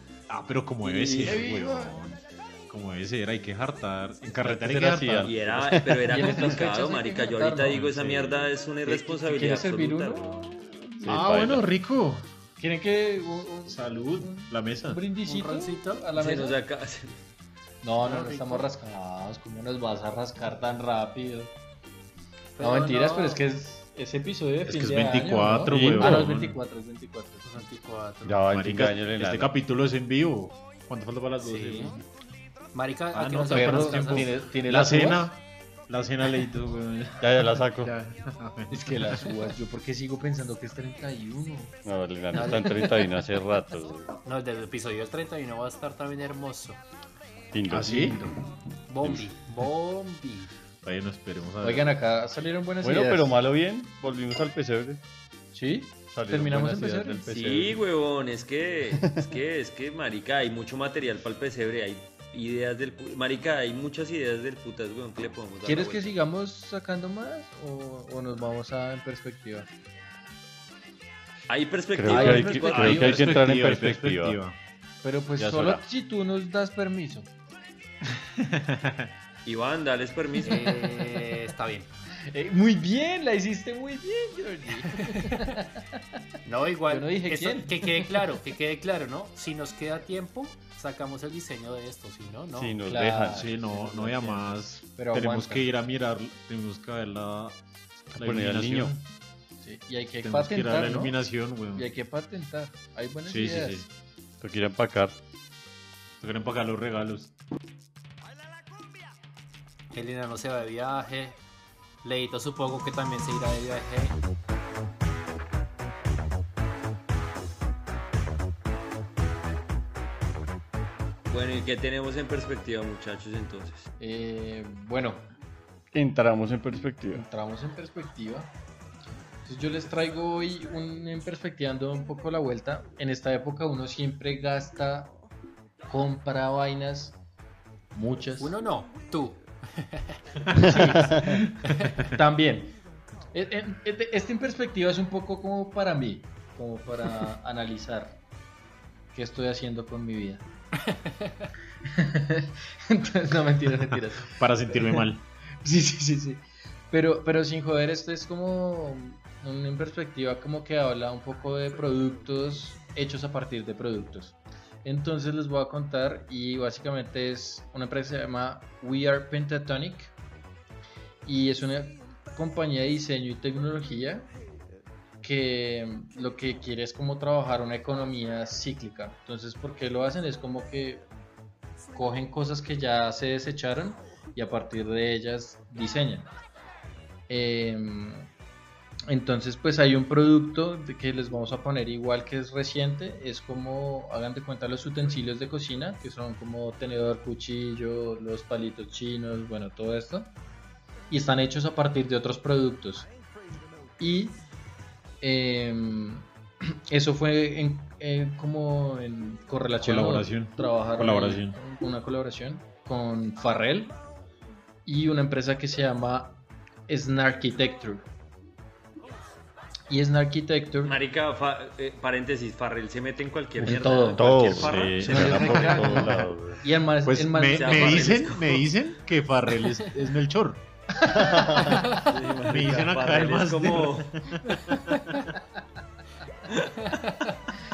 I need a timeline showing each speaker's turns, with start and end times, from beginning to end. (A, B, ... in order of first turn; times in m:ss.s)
0:00.3-0:05.5 A
0:00.8-0:02.0 B
0:04.3-0:06.1 C
0:05.2-0:10.5 D
0:06.0-0:07.8 B
0:07.6-0:08.5 A
0:08.8-0:11.3 B
0:11.0-0:11.7 C
0:11.1-0:12.3 A
0:12.6-0:16.6 B
0:13.7-0:15.0 A
0:15.2-0:16.1 E
0:16.2-0:17.2 D
0:17.8-0:21.5 B
0:18.0-0:18.7 E
0:22.6-0:23.4 E
0:22.6-0:27.5 B
0:24.6-0:26.6 A
0:25.7-0:26.3 C
0:27.5-0:28.4 E
0:28.2-0:29.5 C
0:28.4-0:32.0 A
0:31.4-0:32.0 E
0:32.7-0:34.3 E
0:33.1-0:39.3 A
0:33.5-0:35.3 B
0:37.2-0:37.9 C
0:38.7-0:41.8 B
0:41.8-0:44.2 C
0:42.3-0:43.1 E
0:44.2-0:46.8 E
0:47.5-0:48.3 C
0:47.7-0:48.3 A
0:48.9-0:50.5 E
0:49.0-0:49.3 C
0:50.8-0:51.9 A
0:51.6-0:53.3 B
0:52.8-0:55.0 C
0:55.5-0:57.2 B
0:56.1-0:57.8 C
0:57.3-1:06.2 D
1:05.6-1:09.7 B
1:11.5-1:13.4 D
1:12.0-1:14.4 C
1:12.1-1:13.2 B
1:12.2-1:14.6 A
1:15.0-1:17.3 B
1:15.4-1:15.8 A
1:18.1-1:19.1 A
1:19.4-1:20.8 D
1:20.4-1:21.9 E
1:20.4-1:21.4 B
1:22.2-1:25.9 B
1:24.9-1:25.4 E
1:26.4-1:32.8 E
1:26.9-1:28.2 B
1:32.6-1:33.6 C
1:32.8-1:35.7 B
1:33.3-1:37.6 A
1:38.1-1:39.0 A
1:38.2-1:38.9 C
1:39.6-1:41.2 B
1:40.2-1:41.9 A
1:41.7-1:43.9 B
1:43.3-1:43.9 A
1:44.4-1:45.2 C
1:46.2-1:47.3 A
1:49.9-1:51.4 E
1:52.0-1:54.2 E
2:01.3-2:03.9 D
2:04.0-2:05.3 B
2:05.9-2:07.2 C
2:07.1-2:08.5 B
2:09.4-2:15.1 B
2:15.9-2:17.2 B
2:17.9-2:18.6 B
2:18.4-2:20.2 E
2:20.5-2:22.8 B
2:23.3-2:28.2 B
2:29.1-2:30.4 B
2:31.9-2:35.1 B
2:34.4-2:35.2 A
2:35.6-2:50.1 B
2:51.2-2:54.3 B
2:55.2-3:01.1 B
3:01.9-3:06.3 B
3:07.3-3:08.3 B
3:09.1-3:20.3 B
3:21.1-3:23.1 B
3:24.0-3:24.4 B
3:25.2-3:34.0 B
3:29.8-3:31.6 A
3:34.8-3:38.1 B
3:39.9-3:41.0 B
3:40.8-3:46.0 D
3:43.6-3:44.3 B
3:43.6-3:46.6 C
3:44.5-3:46.3 A
3:45.0-3:48.4 B
3:47.0-3:50.6 A
3:47.5-3:48.7 D
3:51.0-3:51.9 B
3:51.1-3:51.9 C
3:51.9-3:54.3 D
3:52.4-3:55.2 A
3:56.5-3:57.0 D
3:56.9-3:57.3 E